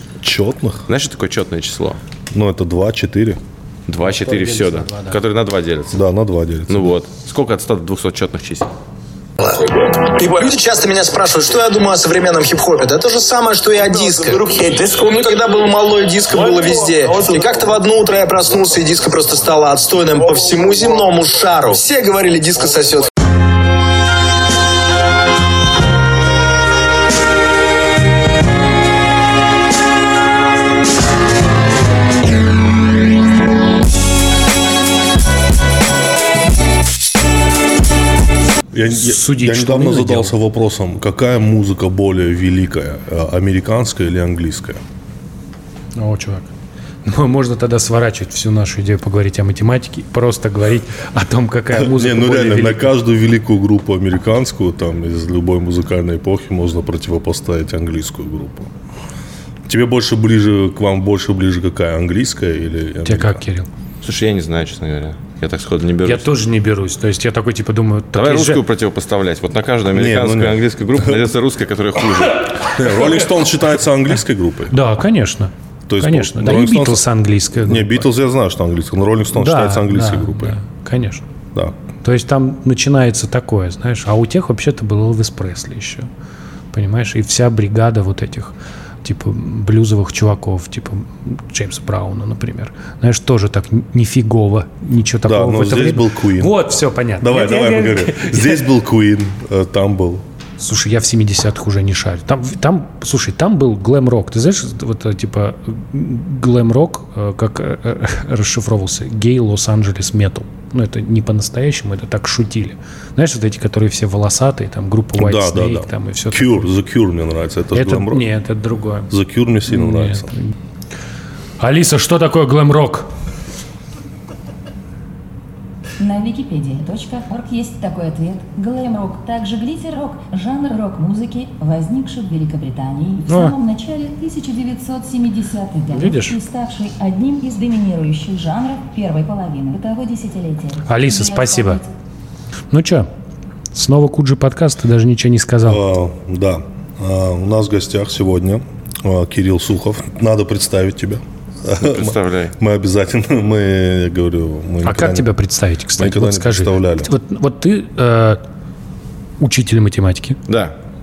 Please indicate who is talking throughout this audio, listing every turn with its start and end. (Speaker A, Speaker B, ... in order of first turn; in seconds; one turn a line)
Speaker A: 0.2-0.9
Speaker B: 0.9-2.0
Speaker A: 2.3-3.4
Speaker B: 3.9-6.0
Speaker C: 4.0-5.2
Speaker A: 5.9-6.9
Speaker B: 6.7-8.7
Speaker D: 9.4-23.1
Speaker A: 38.7-44.8
Speaker C: 38.9-40.4
Speaker C: 46.0-46.5
Speaker C: 47.0-52.9
Speaker A: 51.7-58.7
Speaker A: 59.7-63.4
Speaker C: 63.0-63.7
Speaker B: 64.0-66.3
Speaker C: 66.0-68.6
Speaker B: 68.1-72.5
Speaker A: 69.9-71.2
Speaker A: 72.6-74.7
Speaker C: 74.7-78.0
Speaker A: 75.9-77.0
Speaker A: 77.6-80.5
Speaker C: 79.3-81.2
Speaker C: 82.0-86.1
Speaker C: 86.7-98.7
Speaker A: 95.2-96.5
Speaker A: 97.2-100.2
Speaker C: 100.6-116.7
Speaker A: 115.1-118.2
Speaker C: 117.7-119.1
Speaker A: 119.1-120.3
Speaker C: 119.7-120.5
Speaker C: 121.6-123.1
Speaker E: 126.0-141.9
Speaker C: 133.3-133.5
Speaker C: 135.9-136.4
Speaker C: 140.9-141.8
Speaker C: 142.7-143.1
Speaker C: 143.7-145.8
Speaker A: 145.6-155.3
Speaker B: 151.8-152.5
Speaker C: 154.8-158.4
Speaker A: 156.0-157.1
Speaker C: 159.4-160.4
Speaker B: 160.5-160.7